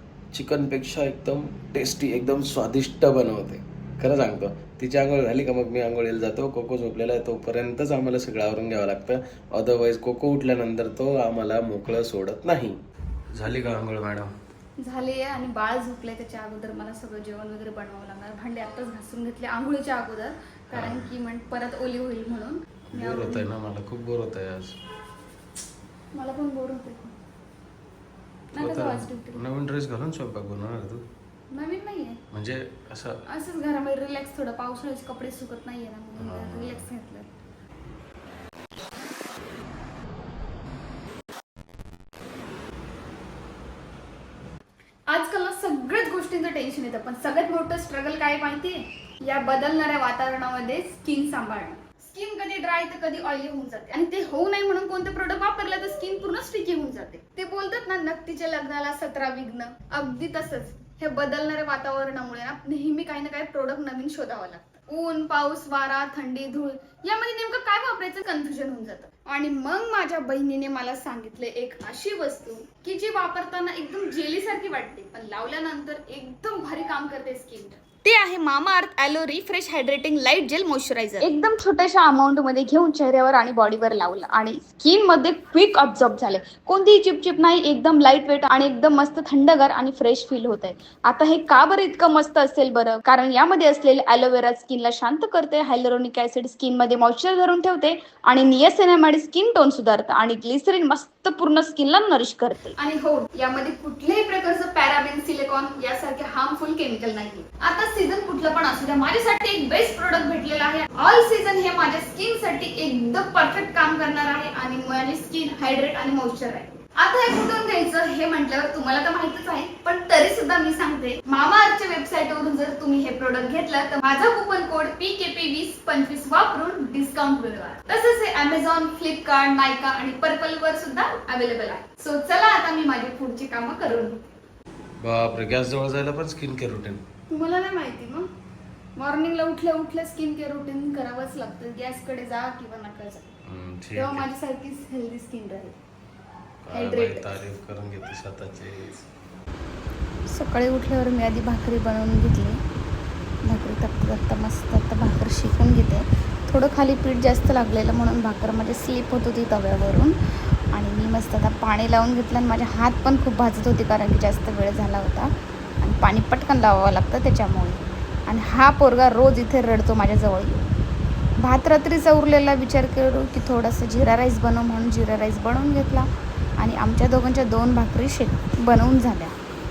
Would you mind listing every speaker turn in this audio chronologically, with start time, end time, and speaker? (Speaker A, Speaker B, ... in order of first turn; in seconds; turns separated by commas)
Speaker A: 0.3-12.8, Speaker A: 13.3-14.3, Speaker B: 14.8-23.5, Speaker A: 20.7-21.1, Speaker A: 22.9-24.8, Speaker B: 26.1-27.1, Speaker B: 28.6-29.4, Speaker A: 28.6-31.0, Speaker B: 31.5-32.2, Speaker A: 32.3-33.2, Speaker B: 33.3-37.3, Speaker A: 36.2-36.9, Speaker B: 45.1-134.2, Speaker A: 135.0-137.0, Speaker B: 137.3-138.3, Speaker B: 139.0-143.2, Speaker A: 143.5-144.3, Speaker B: 143.9-145.8, Speaker A: 146.7-149.1, Speaker B: 146.7-147.3, Speaker B: 150.3-152.6, Speaker B: 153.4-160.2, Speaker B: 160.7-170.7, Speaker B: 171.4-179.4